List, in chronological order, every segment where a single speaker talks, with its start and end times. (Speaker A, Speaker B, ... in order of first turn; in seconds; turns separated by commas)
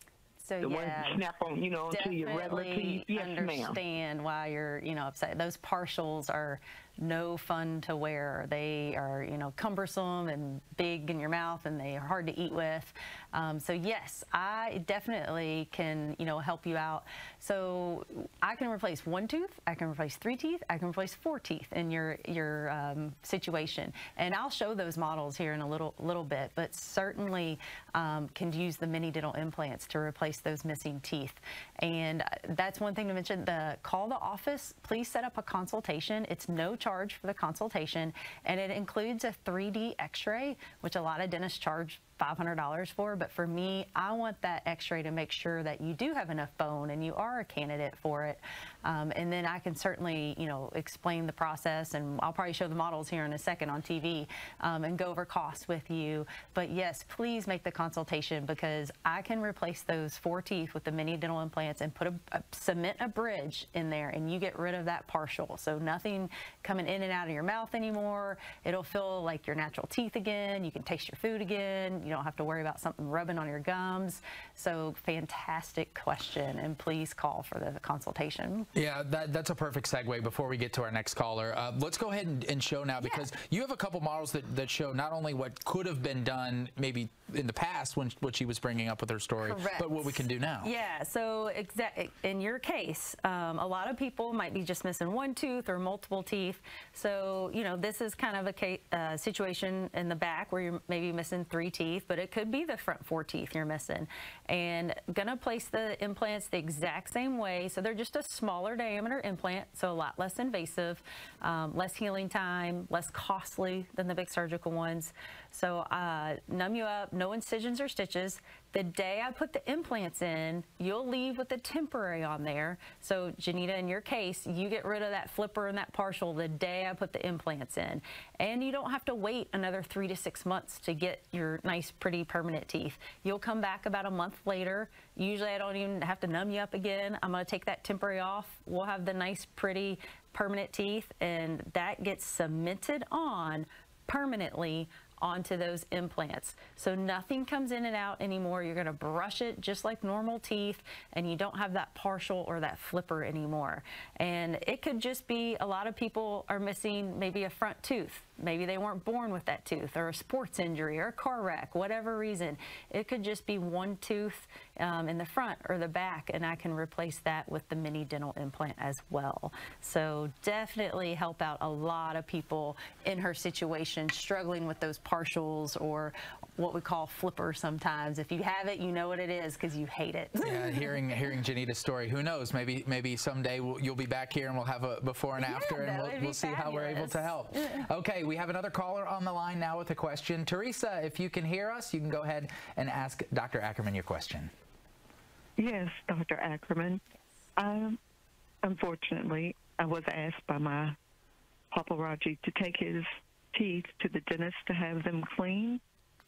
Speaker A: 0.4-1.2, Speaker B: 0.6-3.8, Speaker A: 1.9-78.7, Speaker C: 78.8-90.7, Speaker A: 89.4-181.0, Speaker C: 180.4-194.5, Speaker A: 185.4-187.9, Speaker D: 195.6-197.0, Speaker D: 197.6-198.0, Speaker D: 198.6-201.0, Speaker D: 201.7-205.8